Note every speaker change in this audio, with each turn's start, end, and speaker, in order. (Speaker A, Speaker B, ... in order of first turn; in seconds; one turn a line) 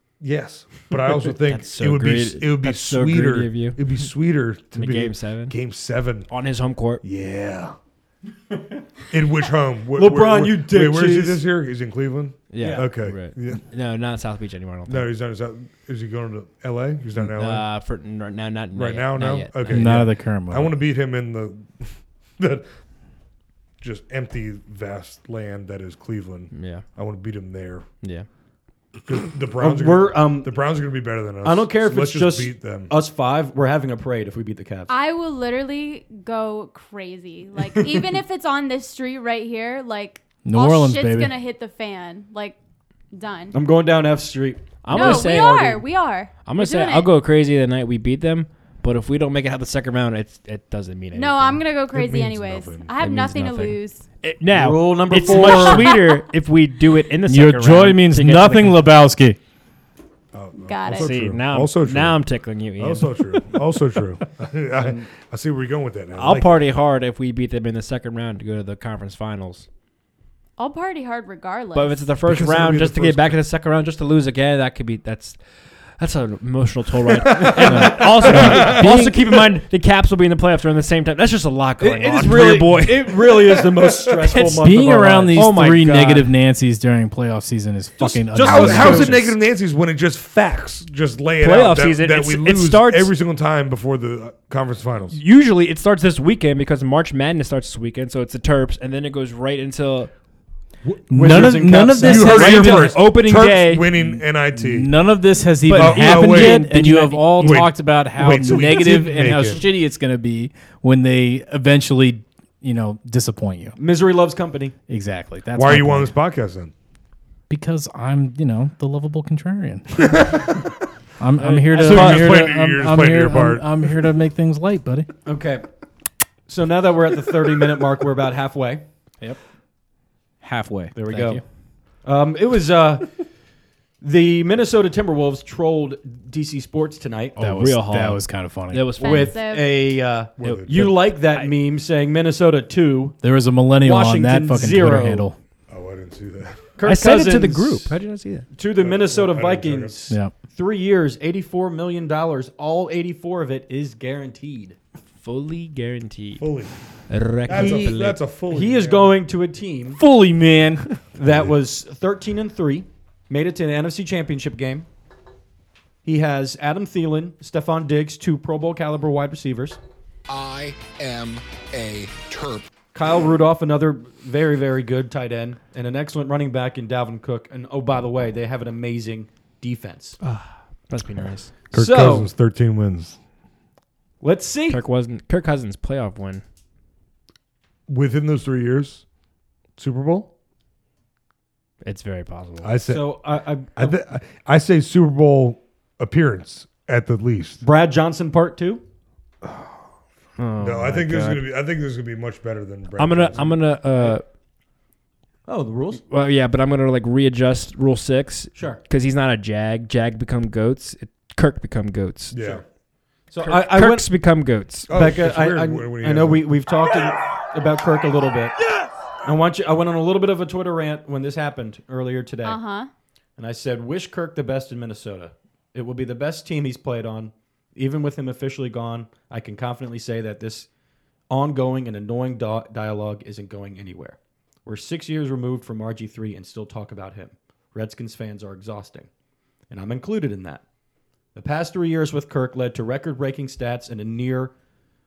Speaker A: 0.2-6.3
Speaker B: 1.4-3.9
Speaker B: 4.7-5.5
Speaker B: 6.3-7.0
Speaker A: 7.0-7.7
Speaker A: 9.1-13.6
Speaker C: 9.9-11.4
Speaker B: 12.5-15.1
Speaker C: 12.6-12.9
Speaker A: 14.9-17.6
Speaker B: 17.1-20.0
Speaker A: 18.7-22.7
Speaker D: 19.7-20.7
Speaker A: 23.8-27.8
Speaker B: 26.5-26.8
Speaker B: 28.0-28.3
Speaker A: 29.1-32.9
Speaker C: 29.6-30.6
Speaker C: 31.4-34.9
Speaker E: 34.9-42.6
Speaker C: 37.8-38.0
Speaker D: 40.4-41.3
Speaker E: 43.1-43.5
Speaker C: 43.5-45.7
Speaker B: 44.8-45.8
Speaker E: 44.9-47.1
Speaker B: 46.4-51.6
Speaker E: 51.1-54.0
Speaker A: 51.9-52.9
Speaker B: 53.0-58.8
Speaker C: 54.5-56.0
Speaker E: 55.2-56.2
Speaker D: 57.3-59.4
Speaker A: 60.3-62.2
Speaker E: 60.6-61.1
Speaker B: 60.9-63.4
Speaker A: 62.8-66.5
Speaker C: 64.8-65.1
Speaker B: 66.1-69.7
Speaker E: 70.6-72.0
Speaker B: 71.7-75.4
Speaker A: 72.2-73.3
Speaker B: 76.0-83.3
Speaker A: 77.1-79.1
Speaker D: 77.7-78.0
Speaker C: 77.7-79.1
Speaker C: 81.8-85.8
Speaker A: 83.8-84.2
Speaker B: 84.3-84.6
Speaker D: 84.5-89.2
Speaker B: 85.3-86.2
Speaker C: 88.0-89.3
Speaker A: 88.4-95.2
Speaker B: 91.4-93.1
Speaker B: 95.1-100.1
Speaker A: 100.8-105.0
Speaker D: 101.1-103.0
Speaker C: 101.1-102.9
Speaker B: 102.2-103.9
Speaker D: 104.0-113.8
Speaker A: 105.7-106.6
Speaker B: 105.7-107.6
Speaker A: 107.3-109.6
Speaker C: 113.8-114.7
Speaker D: 114.9-116.1
Speaker A: 115.5-116.7
Speaker D: 117.5-120.5
Speaker A: 120.0-120.7
Speaker D: 121.2-125.1
Speaker B: 121.4-122.5
Speaker A: 121.7-124.0
Speaker C: 125.2-125.6
Speaker C: 126.5-128.8
Speaker D: 130.4-131.4
Speaker C: 130.9-131.4
Speaker C: 132.0-133.2
Speaker C: 134.0-137.4
Speaker B: 137.4-139.3
Speaker D: 137.4-138.9
Speaker C: 139.0-143.2
Speaker E: 139.0-139.8
Speaker A: 140.4-141.0
Speaker B: 140.4-141.5
Speaker D: 143.2-145.4
Speaker C: 143.8-145.3
Speaker A: 145.7-146.7
Speaker C: 146.8-147.9
Speaker B: 146.8-148.5
Speaker C: 148.5-154.8
Speaker A: 148.8-150.0
Speaker B: 155.2-156.5
Speaker A: 156.4-156.7
Speaker B: 157.1-158.2
Speaker A: 157.4-159.2
Speaker C: 157.5-157.8
Speaker C: 158.5-160.0
Speaker D: 160.0-160.8
Speaker C: 161.2-164.9
Speaker C: 166.0-169.8
Speaker C: 172.9-180.2
Speaker B: 180.2-181.6
Speaker A: 181.7-183.2
Speaker C: 181.7-182.3
Speaker C: 184.2-184.8
Speaker B: 184.7-186.4
Speaker A: 187.9-189.0
Speaker A: 189.8-190.3
Speaker B: 191.8-192.7
Speaker A: 192.6-193.2
Speaker C: 192.9-194.0
Speaker A: 193.8-197.6
Speaker C: 197.6-198.8
Speaker B: 200.4-201.4
Speaker A: 200.6-203.6
Speaker B: 203.0-204.2
Speaker C: 205.5-206.0
Speaker B: 206.1-212.3
Speaker A: 212.3-212.6
Speaker C: 213.3-214.1
Speaker B: 213.4-214.9
Speaker A: 214.9-216.5
Speaker C: 214.9-218.6
Speaker C: 219.2-222.6
Speaker E: 222.4-222.9
Speaker C: 223.4-230.7
Speaker C: 231.3-239.1
Speaker C: 239.7-240.6
Speaker C: 241.3-244.5